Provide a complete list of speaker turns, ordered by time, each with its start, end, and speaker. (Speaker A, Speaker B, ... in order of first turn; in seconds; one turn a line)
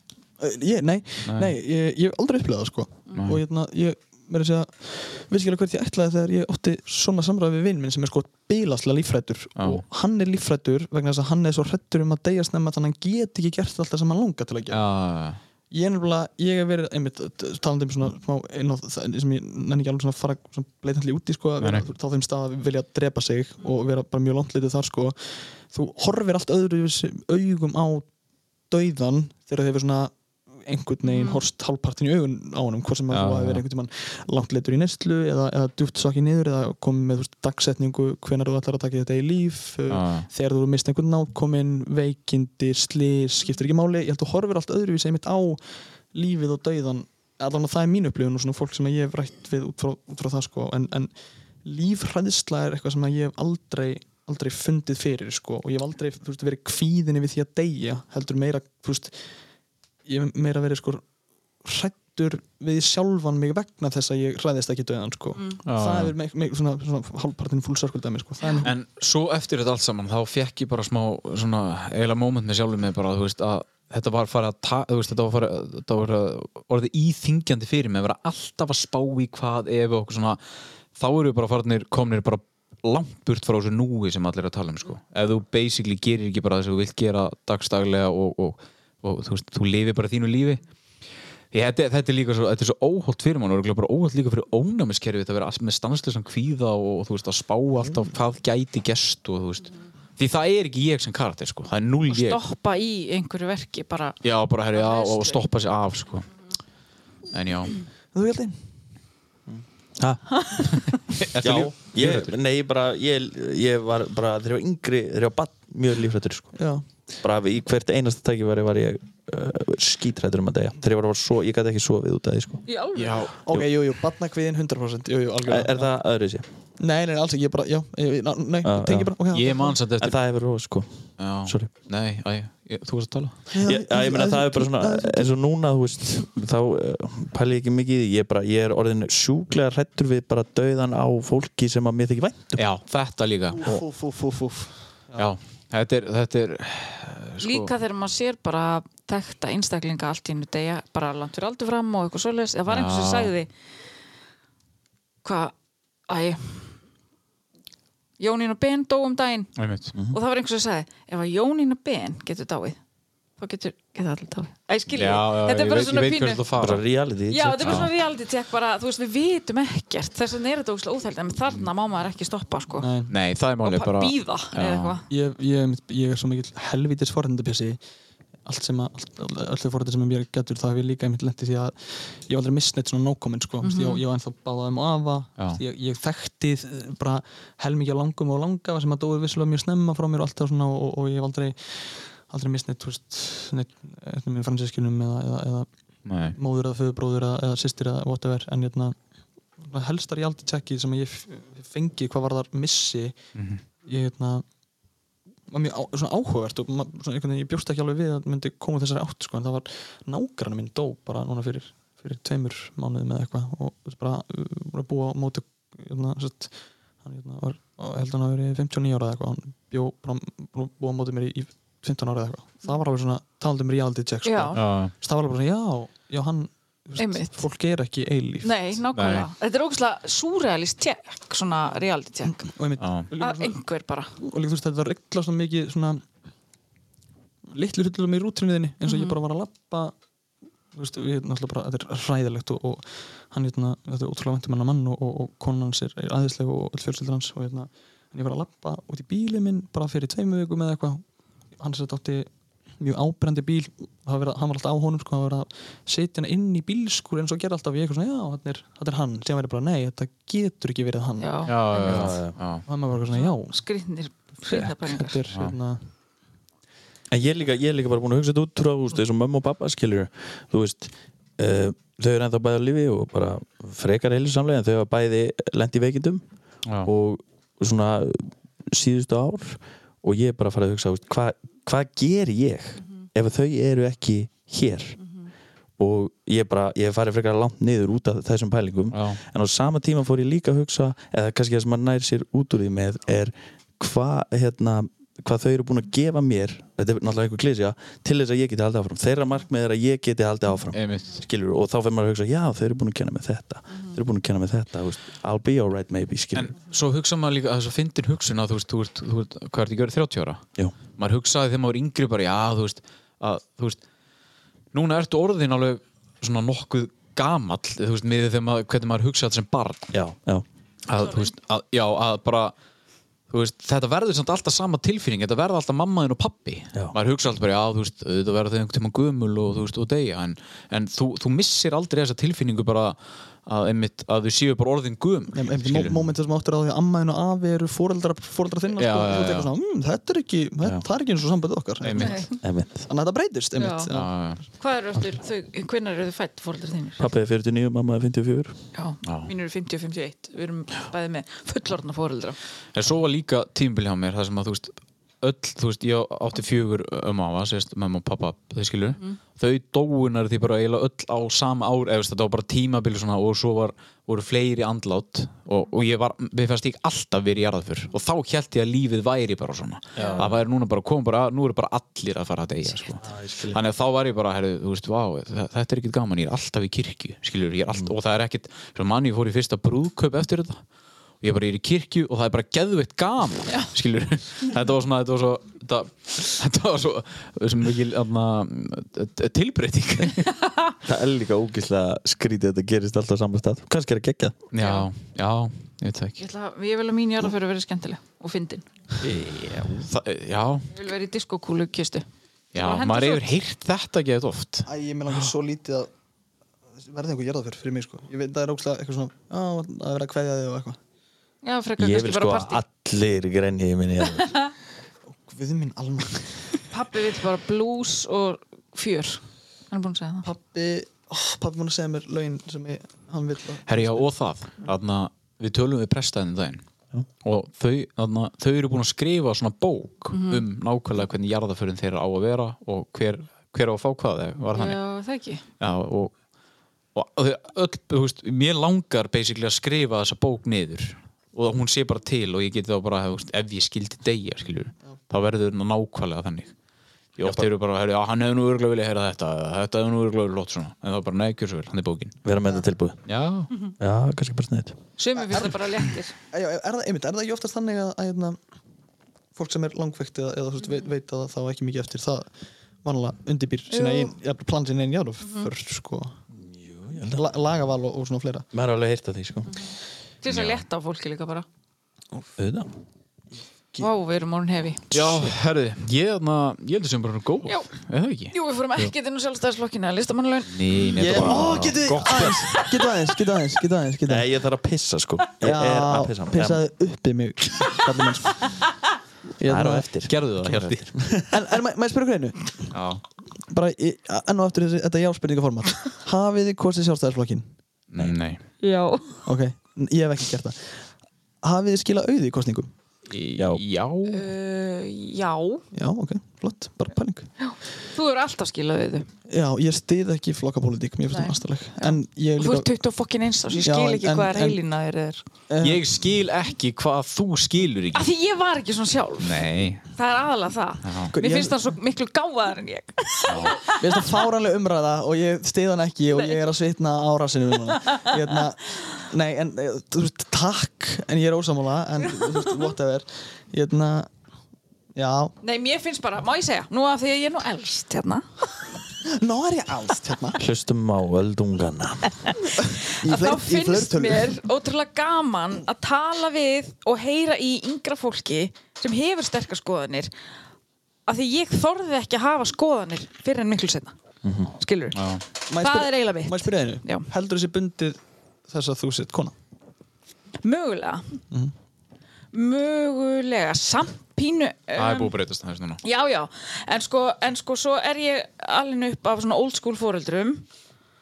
Speaker A: 0.4-14.8
Speaker B: 1.3-1.5
Speaker B: 3.1-3.4
Speaker B: 9.6-9.8
Speaker B: 14.7-15.4
Speaker A: 15.7-28.1
Speaker B: 21.6-21.9
Speaker A: 28.7-51.1
Speaker C: 31.1-31.4
Speaker B: 33.1-33.6
Speaker B: 39.9-40.3
Speaker A: 51.6-59.2
Speaker A: 60.1-61.0
Speaker A: 61.6-68.7
Speaker B: 65.7-66.1
Speaker B: 68.6-80.4
Speaker B: 81.0-90.6
Speaker B: 91.5-102.4
Speaker C: 102.1-104.2
Speaker B: 104.2-106.3
Speaker C: 104.7-105.4
Speaker B: 107.3-107.8
Speaker A: 108.1-108.6
Speaker D: 110.0-110.7
Speaker B: 110.7-112.3
Speaker D: 111.4-116.6
Speaker A: 116.5-116.8
Speaker D: 117.2-122.6
Speaker C: 122.7-123.3
Speaker B: 122.9-123.3
Speaker A: 123.4-125.9
Speaker D: 125.4-126.4
Speaker A: 126.8-129.7
Speaker D: 128.6-129.1
Speaker B: 129.3-130.2
Speaker D: 130.0-131.7
Speaker B: 131.2-133.4
Speaker A: 133.5-135.3
Speaker D: 133.6-142.6
Speaker B: 142.6-143.7
Speaker A: 143.6-145.3
Speaker B: 145.2-147.7
Speaker C: 147.4-153.5
Speaker B: 152.7-153.3
Speaker C: 155.2-155.5
Speaker C: 156.1-156.7
Speaker C: 158.2-159.5
Speaker B: 159.6-159.9
Speaker C: 160.1-162.8
Speaker C: 163.4-166.4
Speaker B: 164.9-166.8
Speaker D: 166.6-167.9
Speaker C: 167.3-172.9
Speaker B: 167.6-167.9
Speaker A: 172.8-173.1
Speaker B: 173.1-175.0
Speaker C: 173.6-175.1
Speaker A: 175.1-177.8
Speaker A: 178.4-195.7
Speaker C: 183.6-184.0
Speaker B: 196.1-196.4
Speaker A: 196.3-198.9
Speaker A: 199.6-203.2
Speaker B: 203.3-203.6
Speaker A: 203.9-204.4
Speaker A: 205.5-228.8
Speaker C: 224.2-224.6
Speaker B: 224.6-224.9
Speaker C: 227.0-227.4
Speaker C: 228.4-232.5
Speaker B: 228.9-229.3
Speaker A: 232.3-233.6
Speaker B: 232.8-233.1
Speaker C: 233.2-234.2
Speaker A: 234.2-236.0
Speaker A: 237.5-239.9
Speaker C: 238.9-239.2
Speaker A: 240.7-251.0
Speaker A: 251.6-261.4
Speaker C: 261.2-262.1
Speaker B: 261.4-262.6
Speaker D: 261.8-262.4
Speaker A: 262.7-263.6
Speaker C: 263.1-265.2
Speaker A: 264.4-265.8
Speaker D: 267.1-276.2
Speaker D: 276.8-285.0
Speaker C: 285.0-285.3
Speaker D: 285.8-306.6
Speaker B: 288.9-289.2
Speaker B: 300.7-301.2
Speaker B: 306.4-313.8
Speaker B: 314.7-319.9
Speaker D: 319.9-320.4
Speaker B: 320.9-322.5
Speaker C: 321.0-321.3
Speaker B: 323.3-336.0
Speaker A: 335.3-342.3
Speaker B: 338.8-339.5
Speaker B: 341.8-342.2
Speaker C: 342.0-342.4
Speaker D: 342.4-342.9
Speaker A: 342.9-344.1
Speaker C: 343.6-343.9
Speaker B: 343.9-344.4
Speaker C: 344.6-347.1
Speaker D: 347.0-348.6
Speaker C: 348.7-352.4
Speaker B: 349.1-349.3
Speaker B: 352.7-380.6
Speaker D: 370.0-370.4
Speaker D: 373.0-373.6
Speaker B: 381.2-390.3
Speaker C: 390.4-390.7
Speaker D: 390.8-394.4
Speaker B: 394.5-396.2
Speaker C: 394.6-394.9
Speaker C: 396.2-398.6
Speaker B: 399.0-400.7
Speaker C: 400.7-403.3
Speaker B: 402.5-405.3
Speaker A: 404.7-405.9
Speaker A: 406.8-410.8
Speaker C: 411.4-412.6
Speaker D: 411.8-414.3
Speaker C: 414.2-414.5
Speaker A: 415.2-416.6
Speaker C: 416.7-420.3
Speaker A: 420.2-424.1
Speaker B: 423.7-426.6
Speaker B: 427.2-434.8
Speaker C: 430.1-430.4
Speaker C: 434.5-435.4
Speaker B: 435.6-436.1
Speaker B: 436.9-446.5
Speaker B: 447.2-452.2
Speaker D: 447.2-447.5
Speaker D: 452.2-453.0
Speaker B: 453.1-453.5
Speaker D: 453.8-454.8
Speaker C: 455.0-456.1
Speaker A: 455.2-455.6
Speaker A: 456.3-458.4
Speaker A: 459.4-462.3
Speaker A: 462.8-466.2
Speaker C: 463.7-464.1
Speaker C: 465.2-465.5
Speaker D: 466.5-467.2
Speaker A: 467.0-468.4
Speaker D: 468.5-469.6
Speaker C: 470.2-471.4
Speaker B: 470.3-470.6
Speaker D: 472.4-472.7
Speaker C: 473.8-474.9
Speaker B: 474.9-478.3
Speaker C: 478.3-480.8
Speaker B: 480.5-482.5
Speaker A: 480.9-484.2
Speaker D: 481.1-481.8
Speaker D: 484.1-486.6
Speaker A: 485.4-488.4
Speaker A: 489.4-489.9
Speaker D: 489.4-491.3
Speaker B: 490.1-490.9
Speaker A: 491.3-492.7
Speaker B: 492.7-493.0
Speaker A: 493.5-497.5
Speaker B: 497.9-498.4
Speaker C: 498.6-499.2
Speaker A: 499.2-500.8
Speaker A: 501.4-502.7
Speaker B: 503.1-504.3
Speaker D: 503.4-503.6
Speaker C: 504.1-505.6
Speaker A: 505.7-507.3
Speaker C: 507.4-509.1
Speaker A: 509.3-512.8
Speaker C: 511.1-515.2
Speaker A: 513.6-514.6
Speaker A: 515.5-515.8
Speaker B: 515.6-518.1
Speaker C: 517.9-524.3
Speaker B: 519.2-519.9
Speaker B: 520.8-521.1
Speaker A: 521.1-521.6
Speaker B: 523.3-523.6
Speaker A: 523.8-534.1
Speaker C: 526.1-526.4
Speaker C: 532.1-532.7
Speaker A: 534.9-535.3
Speaker C: 535.4-538.2
Speaker A: 539.1-540.4
Speaker D: 540.4-542.3
Speaker A: 542.5-544.3
Speaker C: 543.0-550.1
Speaker C: 551.1-553.9
Speaker D: 554.2-554.5
Speaker C: 554.5-555.0
Speaker B: 554.9-555.2
Speaker A: 555.5-559.3
Speaker C: 555.6-557.1
Speaker C: 560.4-561.2
Speaker C: 562.3-565.1
Speaker B: 564.8-565.8
Speaker C: 565.8-570.4